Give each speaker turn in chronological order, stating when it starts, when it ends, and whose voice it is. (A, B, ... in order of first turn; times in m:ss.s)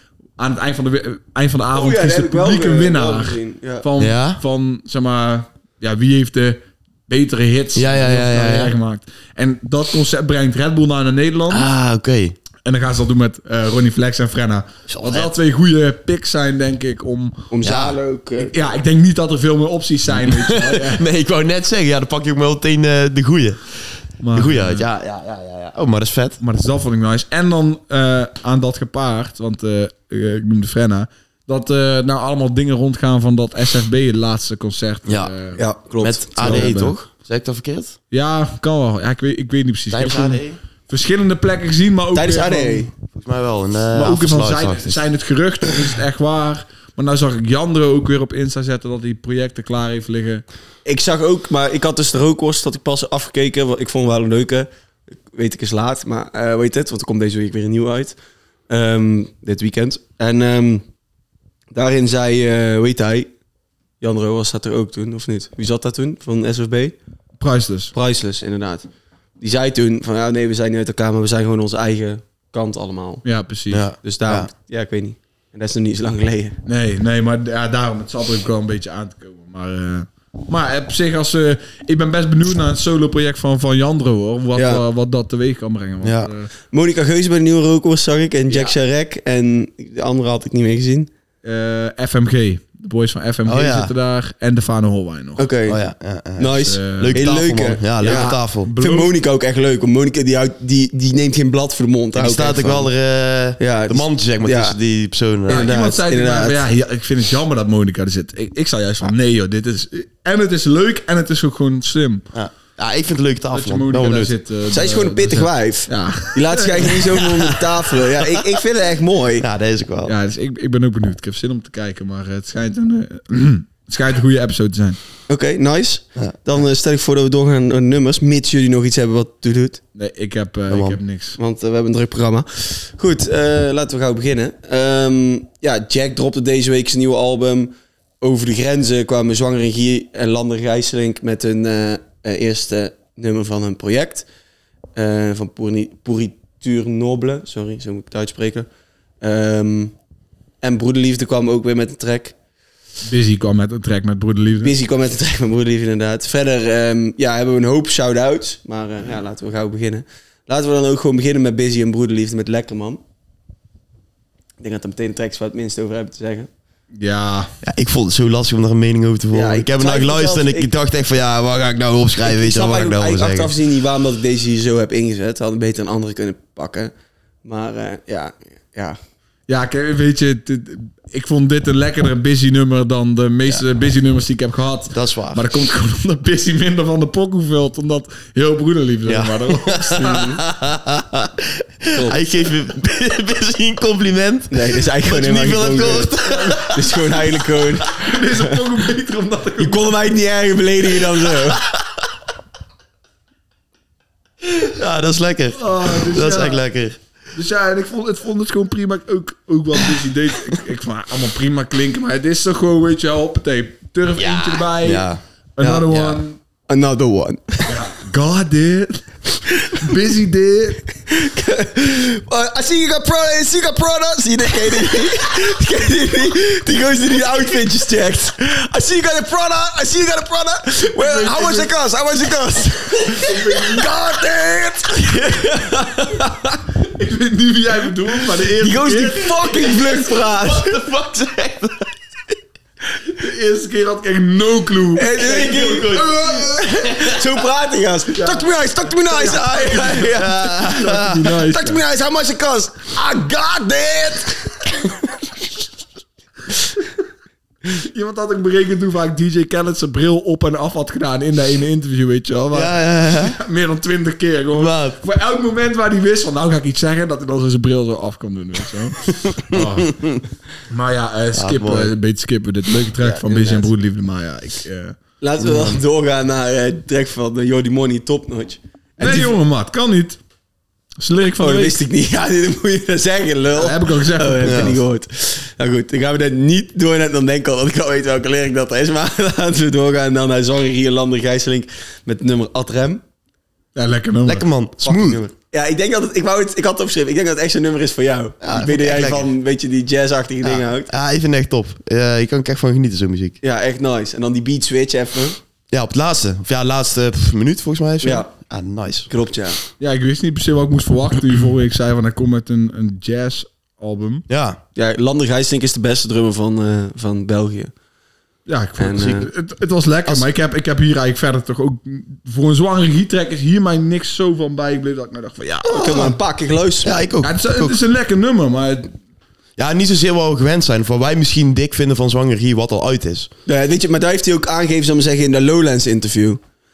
0:00.4-0:11.7 A
0:01.7-0:03.8 B
0:04.0-0:04.4 C
0:07.8-0:08.7 C
0:11.5-0:12.4 C
0:12.6-0:17.5 A
0:14.9-0:15.3 C
0:17.5-0:18.5 B
0:17.6-0:18.0 C
0:18.4-0:21.1 A
0:20.1-0:23.6 C
0:24.2-0:24.9 A
0:24.3-0:26.4 C
0:26.4-0:35.6 A
0:35.1-0:35.3 C
0:35.6-0:36.8 B
0:36.0-0:38.0 C
0:36.4-0:37.0 A
0:38.1-0:42.9 A
0:39.9-0:40.6 C
0:42.2-0:42.9 B
0:43.2-0:45.0 C
0:43.9-0:50.4 A
0:50.8-0:54.7 B
0:55.3-0:58.2 B
0:58.7-1:00.8 B
1:01.7-1:03.3 B
1:04.0-1:07.0 B
1:07.4-1:07.9 A
1:07.9-1:08.9 B
1:09.4-1:13.2 B
1:13.2-1:13.9 A
1:13.7-1:14.5 C
1:14.0-1:16.6 B
1:16.6-1:26.5 A
1:24.6-1:24.8 B
1:26.0-1:26.3 C
1:26.7-1:31.1 B
1:31.4-1:35.5 A
1:33.5-1:33.9 C
1:35.4-1:35.8 B
1:35.7-1:38.7 C
1:36.4-1:42.9 B
1:36.6-1:37.2 A
1:38.0-1:39.1 A
1:42.1-1:45.8 C
1:43.6-1:44.8 B
1:45.5-1:46.6 B
1:45.5-1:52.2 A
1:52.3-1:54.3 C
1:53.5-1:57.2 A
1:54.7-1:59.5 B
1:59.4-2:00.1 C
2:00.1-2:05.0 A
2:05.3-2:09.8 B
2:10.0-2:11.4 A
2:10.7-2:11.0 C
2:11.4-2:24.2 B
2:25.0-2:28.7 B
2:29.2-2:30.0 B
2:30.6-2:32.4 B
2:33.0-2:34.7 A
2:34.6-2:43.0 B
2:44.6-2:46.5 B
2:46.9-2:47.5 A
2:47.6-2:53.5 C
2:49.3-2:50.7 B
2:52.2-2:56.9 B
2:57.4-2:59.0 B
2:59.5-3:10.3 A
3:04.9-3:05.4 C
3:09.1-3:17.6 C
3:10.0-3:10.4 B
3:11.9-3:12.2 B
3:14.5-3:18.6 B
3:18.0-3:20.0 A
3:19.6-3:21.6 B
3:21.5-3:22.0 C
3:24.4-3:27.0 C
3:25.5-3:26.6 A
3:27.3-3:36.4 A
3:34.2-3:36.2 C
3:36.7-3:37.7 B
3:37.6-3:40.9 A
3:41.1-3:56.6 B
3:51.0-3:51.7 A
3:53.1-3:54.0 A
3:56.8-3:59.5 A
3:58.5-4:00.8 B
3:59.9-4:02.0 C
4:03.1-4:05.2 A
4:05.0-4:10.6 B
4:05.2-4:07.1 C
4:08.1-4:08.5 A
4:09.0-4:11.8 A
4:10.1-4:11.4 C
4:11.4-4:14.9 B
4:17.6-4:35.0 A
4:22.5-4:23.4 C
4:24.6-4:25.0 C
4:29.2-4:30.2 C
4:31.4-4:31.9 C
4:33.0-4:33.7 B
4:35.2-4:39.3 B
4:35.4-4:35.8 C
4:39.0-4:40.2 A
4:41.0-4:41.8 A
4:41.4-4:53.0 B
4:43.6-4:44.8 A
4:44.4-4:44.7 C
4:53.8-4:54.5 A
4:54.2-4:55.2 C
4:54.8-5:00.9 B
4:58.4-4:59.3 C
5:00.4-5:03.4 C
5:03.4-5:05.4 B
5:05.7-5:09.1 C
5:08.0-5:08.3 B
5:09.1-5:09.6 B
5:09.8-5:14.2 A
5:14.3-5:14.6 C
5:14.8-5:17.7 B
5:18.5-5:26.1 A
5:18.8-5:19.2 B
5:19.0-5:19.3 C
5:25.6-5:27.0 B
5:25.8-5:26.1 C
5:26.8-5:27.8 C
5:27.2-5:28.9 A
5:29.6-5:33.3 C
5:33.5-5:36.4 B